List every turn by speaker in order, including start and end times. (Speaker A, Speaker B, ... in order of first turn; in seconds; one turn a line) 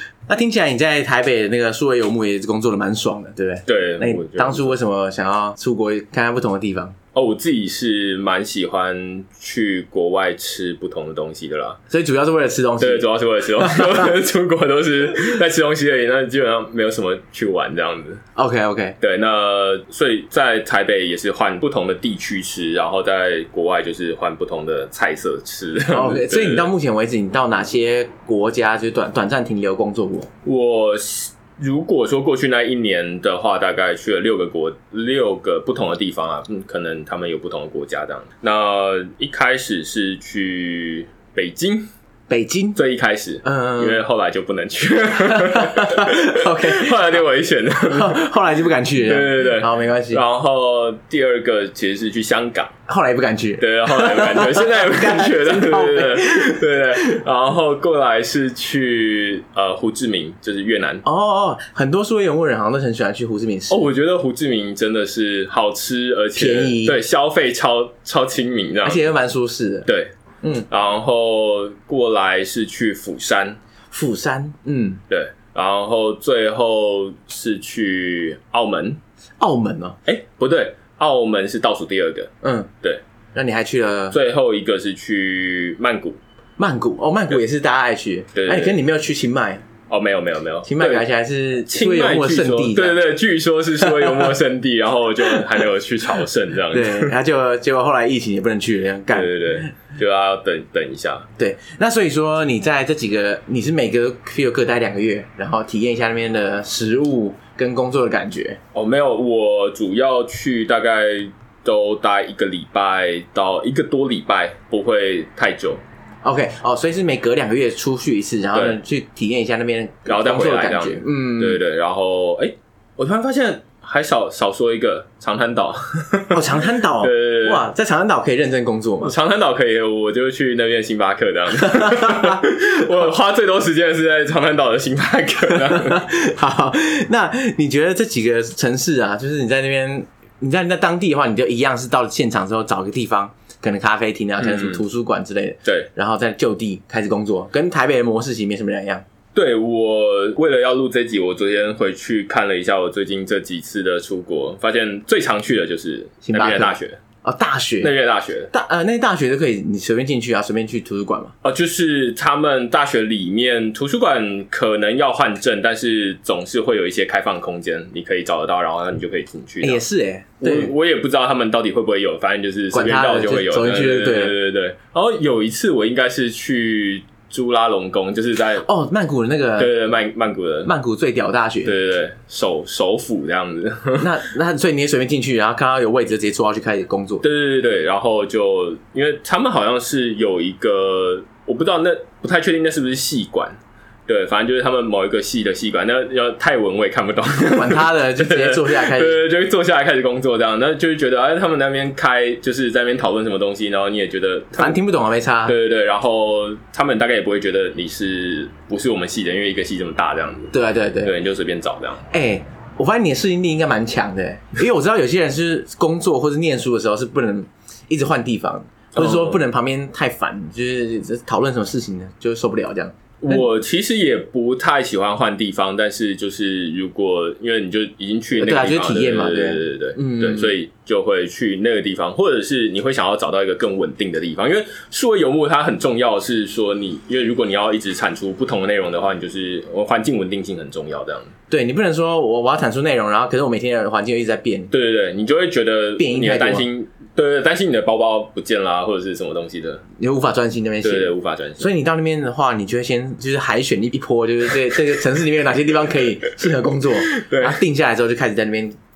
Speaker A: 0.3-6.9
Speaker B: 3.6-4.8
Speaker B: 7.1-11.8
Speaker A: 11.9-14.1
Speaker B: 12.8-18.2
Speaker A: 18.4-18.9
Speaker B: 19.0-26.7
Speaker A: 25.9-30.3
Speaker B: 30.4-41.9
Speaker A: 42.3-42.8
Speaker B: 42.7-48.2
Speaker A: 43.4-44.0
Speaker A: 45.3-47.0
Speaker A: 47.9-50.2
Speaker B: 49.0-52.7
Speaker A: 52.9-56.6
Speaker B: 53.6-61.0
Speaker A: 61.0-63.9
Speaker B: 63.7-69.1
Speaker A: 66.3-67.0
Speaker A: 68.8-69.9
Speaker B: 69.8-70.1
Speaker A: 70.4-70.7
Speaker B: 70.7-73.6
Speaker A: 73.9-75.0
Speaker B: 75.1-79.0
Speaker A: 79.4-80.0
Speaker B: 80.0-82.3
Speaker A: 82.4-82.7
Speaker A: 83.3-84.2
Speaker B: 84.1-86.2
Speaker A: 86.6-89.6
Speaker B: 88.3-88.8
Speaker B: 89.9-91.1
Speaker A: 90.6-93.0
Speaker B: 91.7-97.1
Speaker A: 93.8-94.3
Speaker A: 96.7-99.7
Speaker B: 99.1-101.3
Speaker A: 101.4-108.6
Speaker B: 108.7-115.8
Speaker A: 116.2-121.6
Speaker B: 118.5-118.8
Speaker B: 120.0-127.6
Speaker A: 126.3-129.1
Speaker B: 129.0-136.0
Speaker A: 131.6-132.4
Speaker A: 135.6-149.0
Speaker B: 144.4-144.8
Speaker B: 149.3-157.0
Speaker A: 156.2-157.9
Speaker B: 157.8-158.5
Speaker A: 158.5-161.3
Speaker B: 161.4-169.8
Speaker A: 169.6-170.7
Speaker B: 170.4-178.7
Speaker A: 172.7-174.4
Speaker A: 178.6-179.7
Speaker B: 179.6-180.7
Speaker A: 180.6-181.7
Speaker B: 181.6-184.1
Speaker A: 184.0-187.2
Speaker B: 187.2-204.8
Speaker A: 197.4-199.2
Speaker A: 204.6-205.5
Speaker B: 205.4-212.0
Speaker A: 210.5-211.1
Speaker A: 212.1-223.4
Speaker B: 218.9-219.4
Speaker B: 223.2-241.3
Speaker A: 228.4-230.5
Speaker A: 241.5-244.7
Speaker B: 244.7-249.8
Speaker A: 246.0-246.7
Speaker A: 250.0-258.8
Speaker B: 250.8-251.7
Speaker B: 257.1-257.6